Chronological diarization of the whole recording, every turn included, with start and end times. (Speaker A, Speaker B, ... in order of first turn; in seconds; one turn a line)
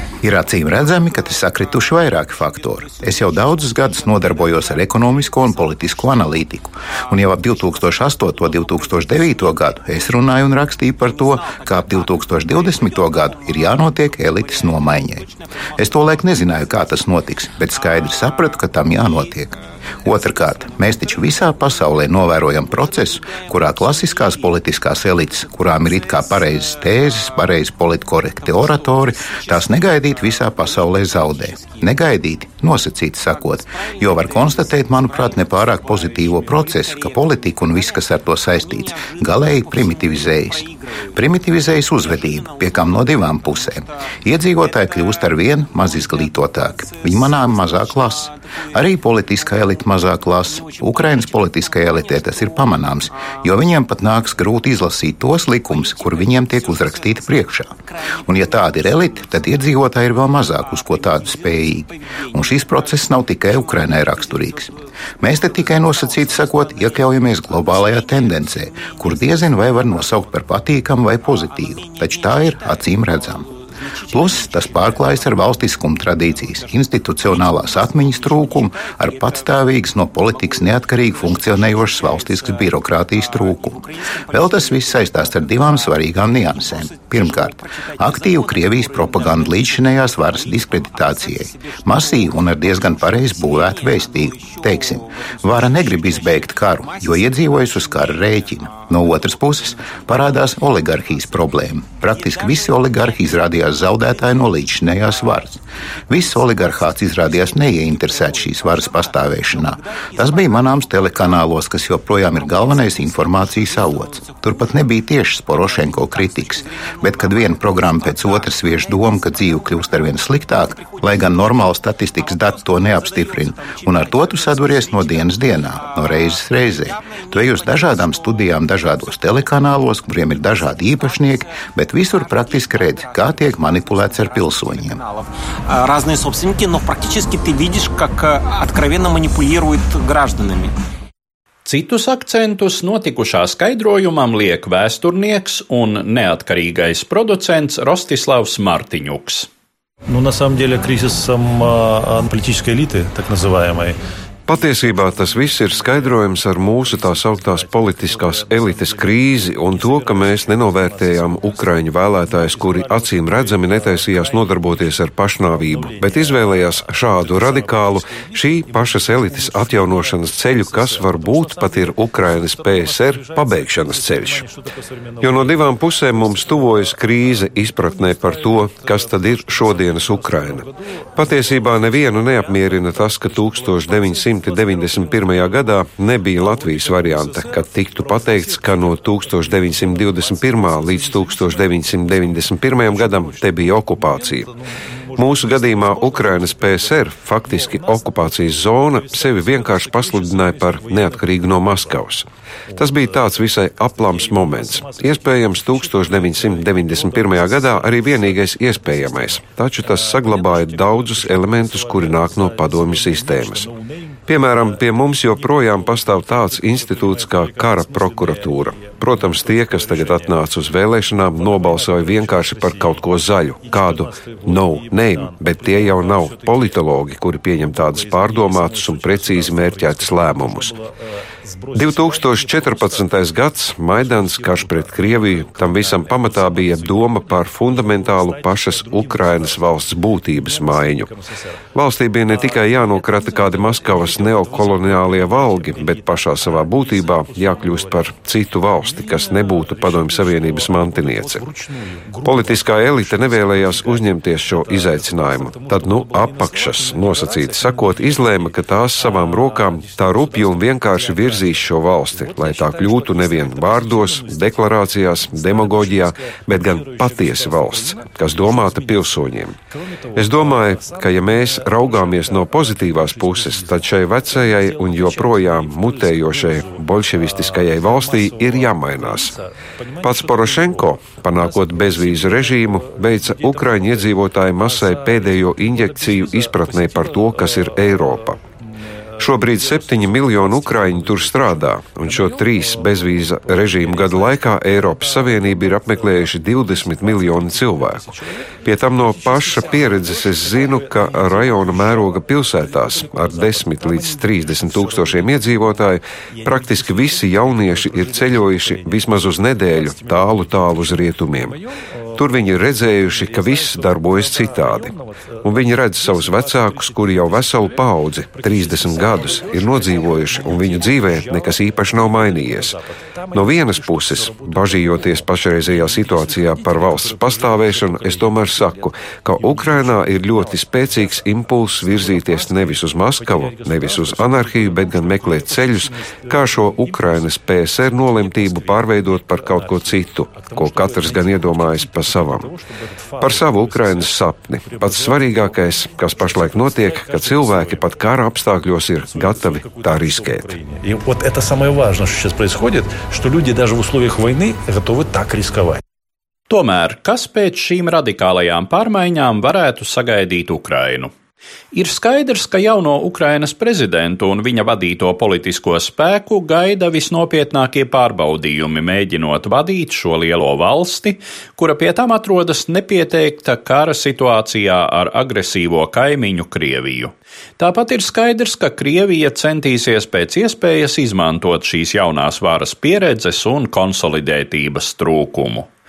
Speaker A: 0.2-73.5
Speaker B: 0.8-17.0
Speaker B: 17.6-22.0
Speaker B: 22.6-24.6
Speaker B: 25.2-27.5
Speaker B: 28.1-32.1
Speaker B: 33.3-54.6
Speaker B: 55.6-69.4
Speaker B: 69.9-70.2
Speaker B: 74.0-75.2
Speaker A: 74.1-135.0
Speaker B: 77.8-78.3
Speaker B: 79.2-79.5
Speaker B: 80.3-101.6
Speaker B: 102.1-103.3
Speaker B: 105.0-105.5
Speaker B: 106.2-106.8
Speaker B: 107.4-108.4
Speaker B: 110.2-110.5
Speaker B: 112.4-114.8
Speaker B: 115.6-140.7
Speaker C: 141.6-149.5
Speaker D: 150.1-154.0
Speaker E: 154.5-174.4
Speaker D: 154.5-230.9
Speaker E: 175.2-194.5
Speaker E: 195.2-213.7
Speaker E: 214.3-230.7
Speaker D: 231.4-241.4
Speaker E: 231.7-241.1
Speaker E: 241.7-251.4
Speaker D: 242.1-355.8
Speaker E: 252.2-269.6
Speaker E: 270.1-279.3
Speaker E: 280.0-288.4
Speaker E: 289.2-298.1
Speaker E: 298.6-311.6
Speaker E: 312.2-314.9
Speaker E: 315.4-322.8
Speaker E: 323.3-342.5
Speaker E: 343.2-350.6
Speaker C: 356.5-361.1
Speaker C: 361.7-385.7